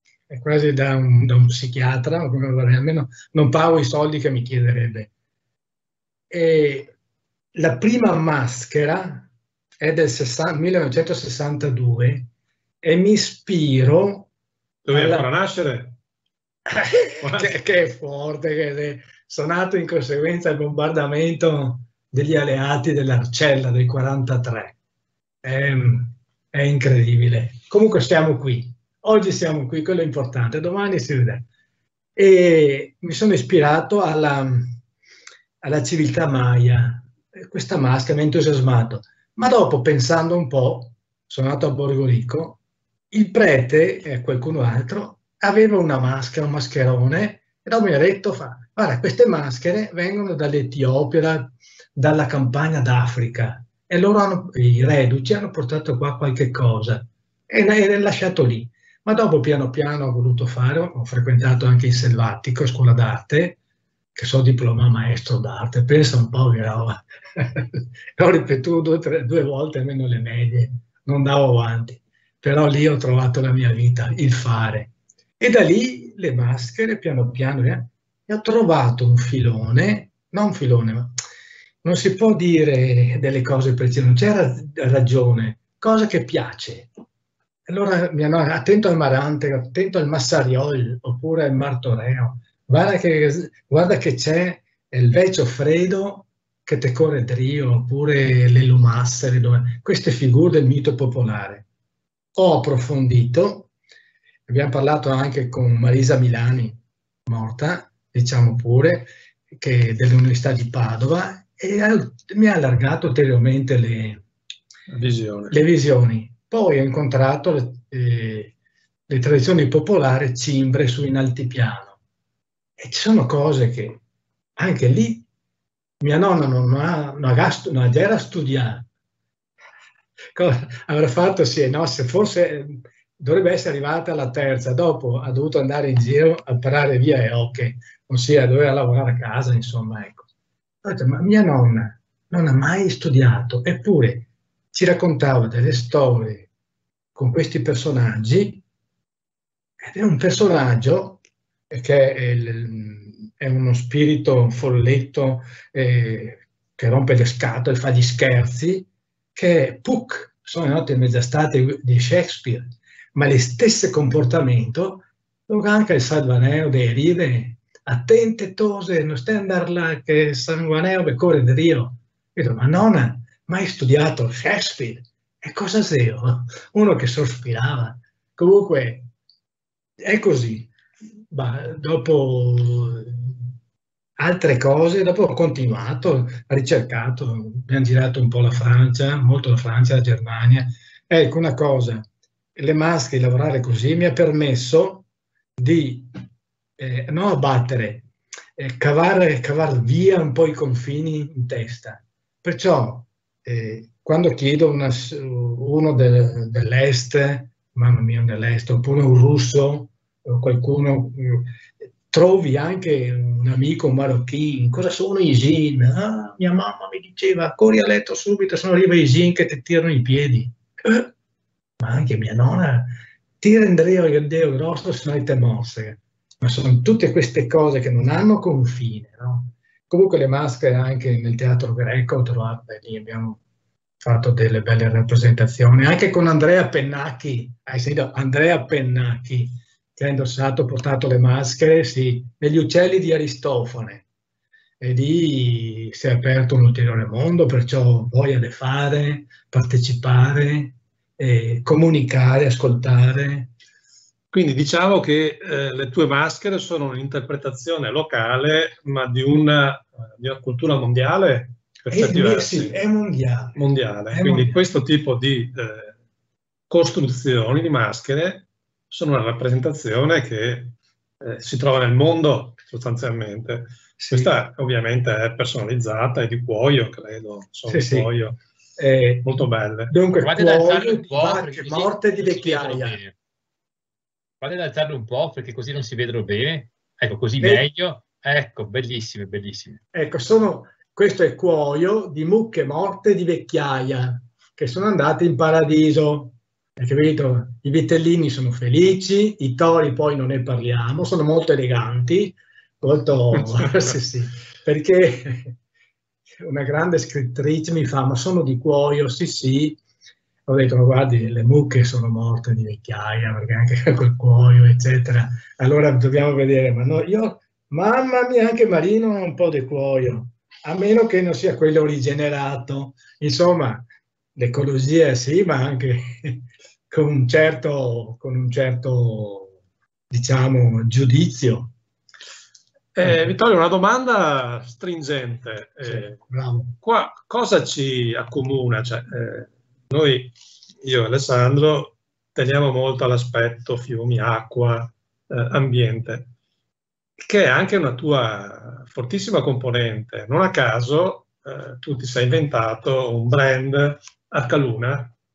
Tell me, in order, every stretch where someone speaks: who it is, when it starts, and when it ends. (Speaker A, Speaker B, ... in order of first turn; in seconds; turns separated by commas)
Speaker A: 0.3-5.1, Speaker A: 6.3-6.9, Speaker A: 7.5-9.3, Speaker A: 9.8-12.3, Speaker A: 12.8-14.3, Speaker B: 14.8-16.0, Speaker A: 14.9-15.3, Speaker A: 16.7-24.7, Speaker B: 17.1-17.5, Speaker A: 25.4-31.4, Speaker A: 32.1-34.8, Speaker A: 35.6-42.6, Speaker A: 43.1-63.6, Speaker A: 64.1-81.2, Speaker A: 81.8-86.9, Speaker A: 87.7-101.6, Speaker A: 102.3-103.7, Speaker A: 104.5-114.2, Speaker B: 114.9-115.5, Speaker A: 115.5-118.5, Speaker A: 119.1-121.9, Speaker A: 122.8-124.0, Speaker A: 124.6-125.2, Speaker A: 126.0-128.8, Speaker A: 130.3-140.3, Speaker A: 140.8-146.5, Speaker A: 147.2-148.6, Speaker A: 149.8-151.2, Speaker A: 151.7-179.1, Speaker A: 180.0-180.7, Speaker A: 181.3-183.4, Speaker A: 184.2-195.1, Speaker A: 195.6-196.1, Speaker A: 196.8-211.5, Speaker A: 212.1-221.1, Speaker A: 221.8-233.4, Speaker A: 234.0-244.0, Speaker A: 244.8-253.5, Speaker B: 254.3-262.8, Speaker A: 261.9-263.6, Speaker B: 263.5-265.9, Speaker A: 264.1-264.6, Speaker B: 266.7-278.4, Speaker A: 274.0-274.3, Speaker A: 277.7-278.1, Speaker A: 278.8-283.0, Speaker B: 279.2-279.9, Speaker C: 280.2-283.1, Speaker C: 284.4-289.8, Speaker A: 287.4-287.6, Speaker A: 289.9-305.6, Speaker A: 306.4-309.8, Speaker A: 310.5-329.5, Speaker A: 330.1-331.7, Speaker B: 332.9-336.2, Speaker A: 333.0-333.3, Speaker A: 335.8-336.8, Speaker B: 336.8-346.3, Speaker B: 347.2-355.1